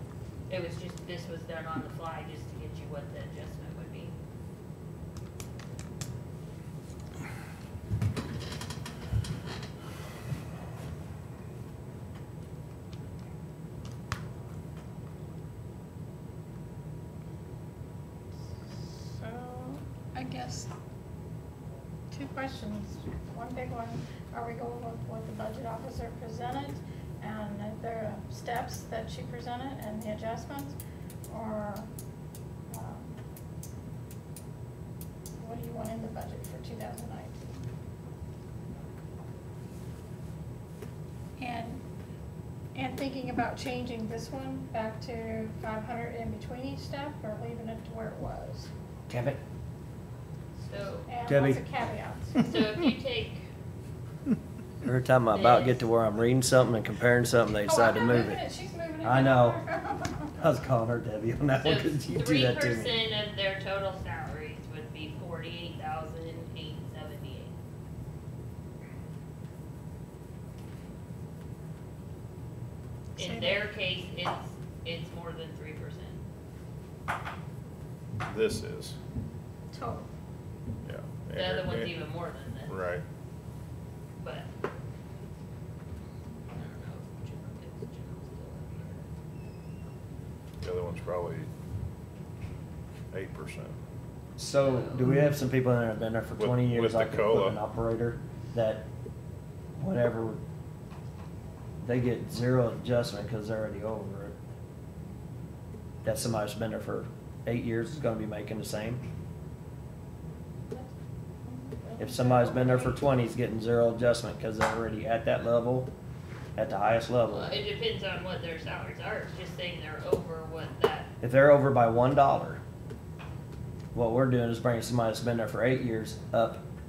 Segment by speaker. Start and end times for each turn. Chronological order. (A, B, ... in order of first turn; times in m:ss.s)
0:00.5-0:04.2 A
0:18.7-0:20.7 B
0:22.1-0:30.8 B
0:31.3-0:31.9 B
0:32.7-0:33.2 B
0:35.4-0:37.6 B
0:41.4-0:41.8 B
0:42.7-0:48.7 B
0:49.1-0:49.4 C
0:50.7-0:51.1 A
0:51.0-0:52.5 B
0:51.2-0:51.6 C
0:52.4-0:53.5 A
0:54.8-0:58.4 C
0:55.3-0:55.8 A
0:57.6-1:00.3 B
0:59.0-0:59.6 C
1:00.3-1:03.0 C
1:01.6-1:07.6 A
1:13.2-1:13.6 B
1:13.2-1:16.2 A
1:18.2-1:19.0 D
1:19.7-1:20.1 B
1:20.8-1:22.1 D
1:21.3-1:22.8 A
1:22.7-1:23.0 D
1:24.2-1:24.5 A
1:26.5-1:29.1 A
1:30.6-1:31.5 D
1:33.1-1:33.8 D
1:34.4-1:38.9 C
1:34.6-1:35.0 A
1:36.4-1:37.6 D
1:39.8-1:40.4 C
1:41.8-1:44.4 C
1:46.0-1:49.0 C
1:51.4-1:52.8 B
1:52.0-1:55.9 C
1:52.4-1:52.9 A
1:56.6-1:57.5 C
1:57.3-2:01.1 A
2:01.2-2:02.6 C
2:03.9-2:06.6 C